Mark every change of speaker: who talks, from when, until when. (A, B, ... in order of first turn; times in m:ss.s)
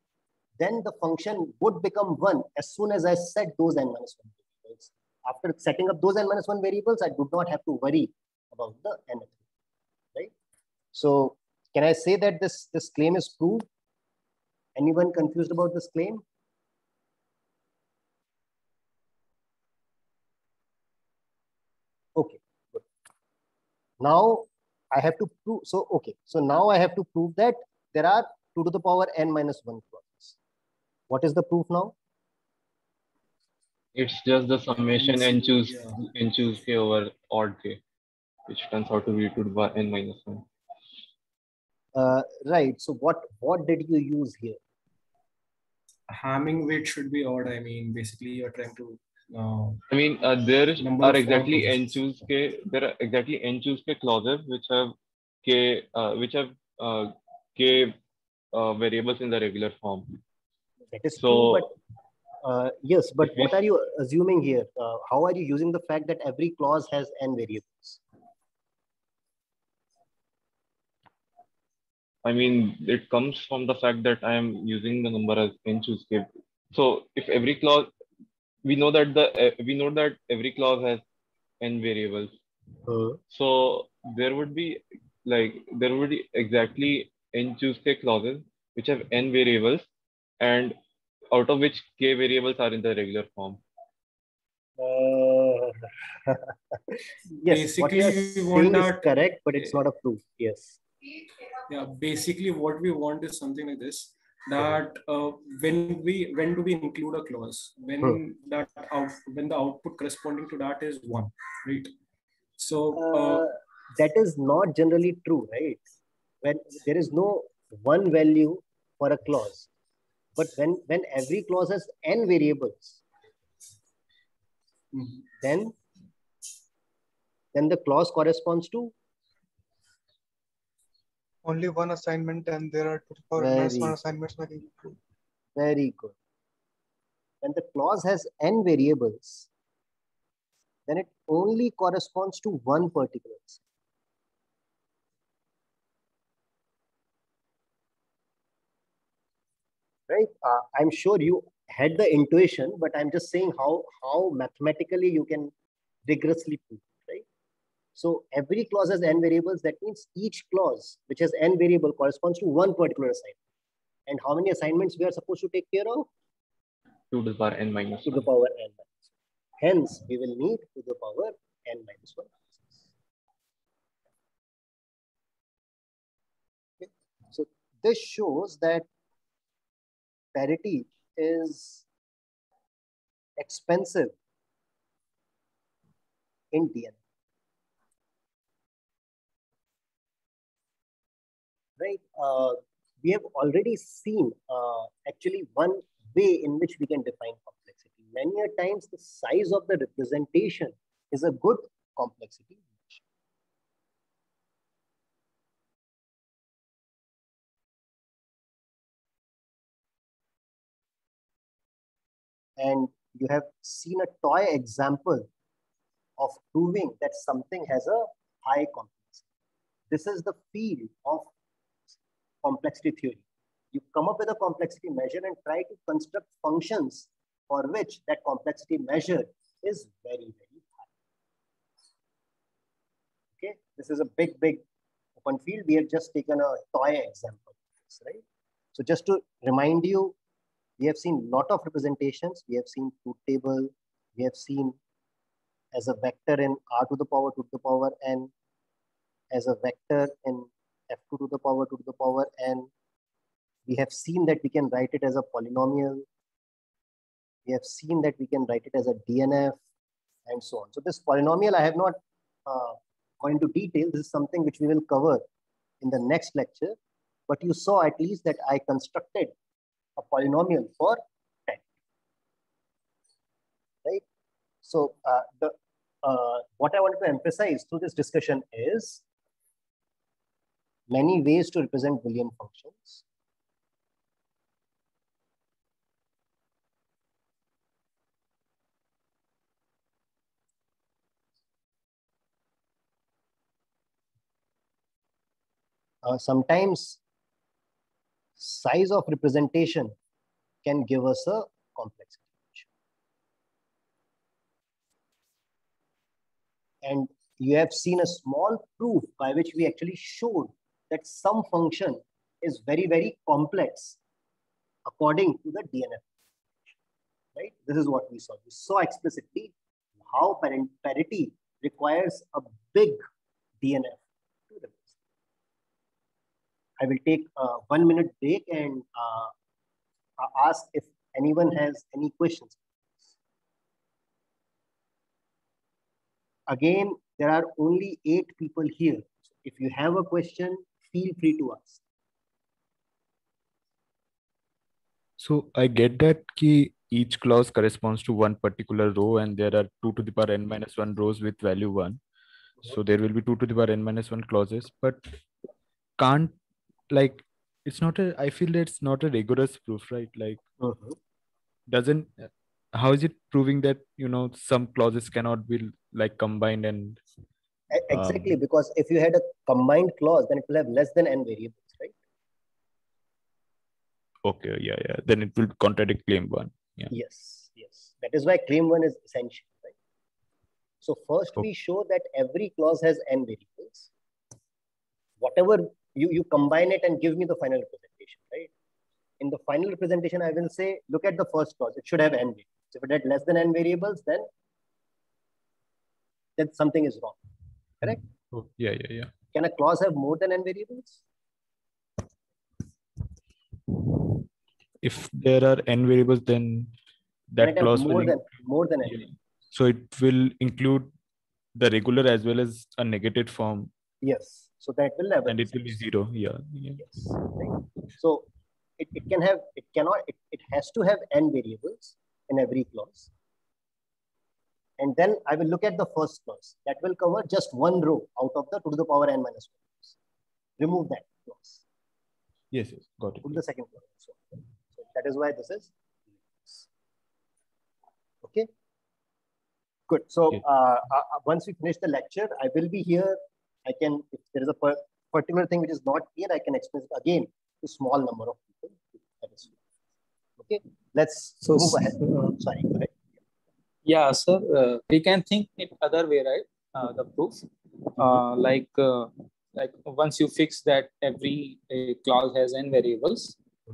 0:00.6-0:09.4 A
0:10.9-0:13.6 A
0:14.8-0:16.2 A
0:22.2-0:22.8 A
0:24.0-0:30.4 A
0:31.1-0:31.9 A
0:33.9-0:37.8 B
0:34.8-0:36.0 C
0:38.5-0:40.5 B
0:41.9-0:44.6 A
0:46.1-0:49.8 C
0:49.9-0:58.0 B
0:50.8-0:52.0 C
0:58.5-1:00.2 B
1:00.9-1:01.7 A
1:01.2-1:01.7 B
1:02.4-1:08.0 A
1:03.2-1:03.5 B
1:12.2-1:17.9 B
1:18.6-1:21.0 B
1:21.6-1:22.3 B
1:22.9-1:23.2 A
1:23.3-1:29.9 B
1:30.4-1:30.8 B
1:31.3-1:33.6 B
1:34.8-1:40.8 A
1:37.5-1:39.1 C
1:41.7-1:51.9 C
1:52.6-1:53.5 C
1:53.0-1:55.8 A
1:56.4-1:59.7 A
2:00.4-2:03.0 A
2:04.9-2:05.8 A
2:07.5-2:08.9 A
2:11.4-2:15.0 D
2:13.4-2:14.0 A
2:15.6-2:16.1 A
2:17.4-2:19.5 A
2:20.9-2:23.6 A
2:30.1-2:35.5 A
2:36.1-2:37.2 A
2:38.0-2:43.4 A
2:44.1-2:46.1 A
2:47.1-2:48.3 B
2:48.0-2:48.9 A
2:49.6-2:52.6 A
2:56.8-2:58.9 A
3:00.3-3:01.8 A
3:03.4-3:04.1 A
3:06.5-3:07.0 A
3:11.8-3:23.0 A
3:32.6-3:35.3 A
3:36.2-3:39.2 A
3:39.9-3:41.3 A
3:42.4-3:50.9 A
3:53.4-3:54.6 A
3:55.2-3:58.2 A
3:58.7-4:00.1 A
4:00.8-4:04.8 A
4:05.7-4:08.3 A
4:09.3-4:12.7 A
4:13.7-4:16.0 A
4:17.4-4:19.6 A
4:20.3-4:25.2 A
4:25.8-4:26.8 A
4:27.3-4:29.3 A
4:30.0-4:31.6 A
4:34.6-4:39.0 A
4:40.9-4:43.0 A
4:56.0-4:57.0 A
4:58.4-4:59.9 A
5:00.6-5:02.6 A
5:06.8-5:14.0 A
5:14.9-5:16.0 A
5:17.4-5:23.0 A
5:23.6-5:24.9 A
5:26.8-5:29.3 A
5:30.2-5:32.6 A
5:36.5-5:41.8 A
5:45.2-5:52.0 E
5:52.6-5:55.0 E
5:56.0-5:56.4 E
5:56.9-6:00.4 E
6:00.6-6:01.0 A
6:01.7-6:07.0 E
6:07.7-6:11.9 A
6:07.9-6:08.4 E
6:14.2-6:16.9 E
6:16.9-6:19.7 A
6:20.8-6:23.9 A
6:25.2-6:28.5 A
6:29.2-6:34.3 A
6:36.4-6:37.2 A
6:38.3-6:39.1 E
6:39.3-6:41.0 A
6:43.7-6:44.2 E
6:44.8-6:46.7 E
6:47.3-6:48.3 E
6:47.4-6:49.1 A
6:48.9-6:50.9 E
6:51.6-6:53.7 E
6:54.0-6:55.8 A
6:55.3-6:57.6 E
6:56.8-6:58.3 A
6:58.8-7:03.1 A
7:04.8-7:09.9 A
7:10.6-7:11.6 A
7:12.5-7:13.4 E
7:13.2-7:15.7 A
7:16.4-7:16.6 A
7:18.2-7:18.5 A
7:19.9-7:29.5 A
7:30.4-7:32.9 A
7:31.4-7:32.4 F
7:33.8-7:43.4 F